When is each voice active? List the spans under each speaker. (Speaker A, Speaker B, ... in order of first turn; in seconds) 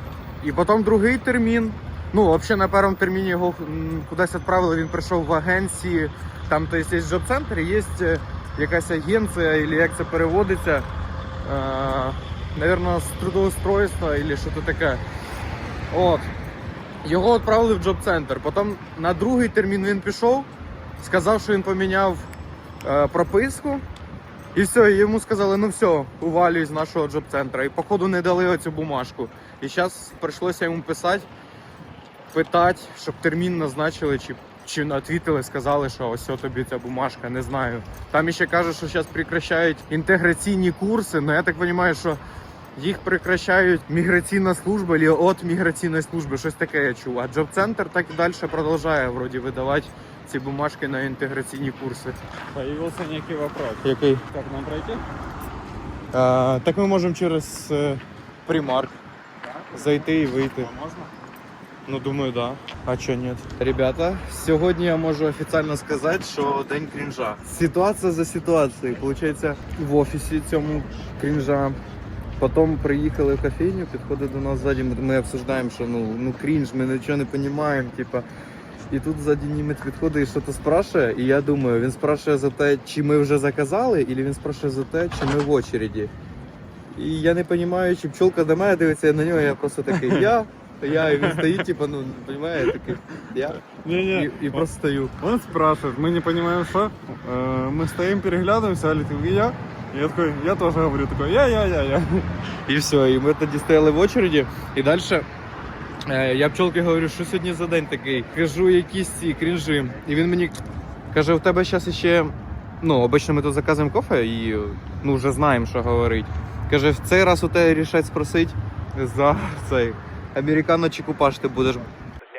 Speaker A: 0.4-10.9, 11.4-15.0, 15.9-16.3, 17.0-22.3, 22.8-23.8, 24.5-31.3, 32.3-42.2, 42.8-52.2, 53.8-54.2, 56.1-59.0, 59.7-60.7, 61.9-71.8, 72.4-78.3, 78.9-86.1, 86.9-95.1, 102.6-105.3, 106.0-110.6, 111.1-121.9
Speaker B: 52.5-55.0, 60.4-61.1, 89.9-90.3, 91.0-91.7, 92.6-93.0, 93.6-94.6, 95.2-102.3